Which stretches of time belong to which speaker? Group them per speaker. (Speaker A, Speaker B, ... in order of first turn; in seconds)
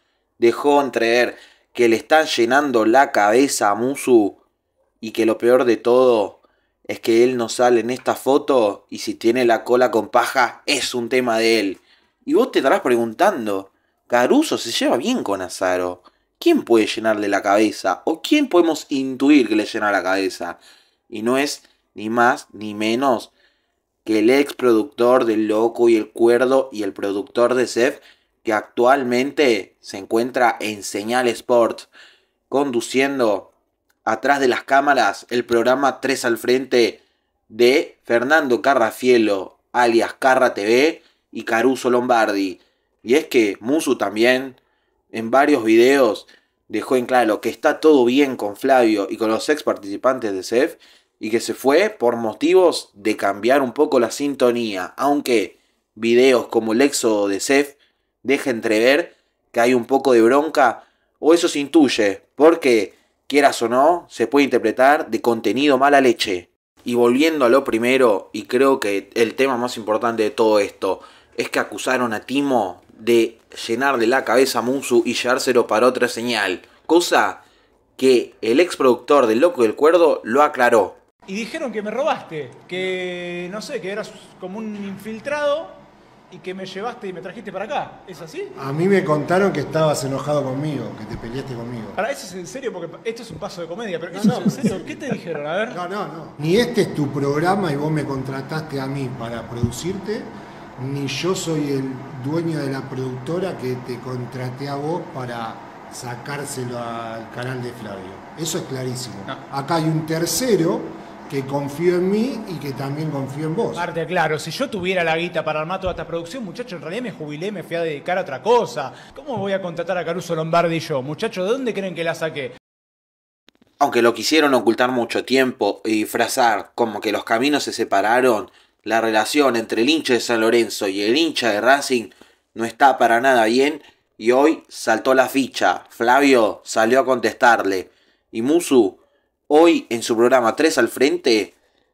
Speaker A: 0.4-4.4, 5.0-23.3, 24.1-31.9, 32.5-33.5, 34.1-44.6, 45.1-77.4, 78.0-81.0, 123.8-139.0, 139.5-141.5
Speaker B: 81.3-88.5, 92.0-95.8, 113.8-122.5
Speaker C: 88.6-92.0, 94.1-95.0, 95.7-113.9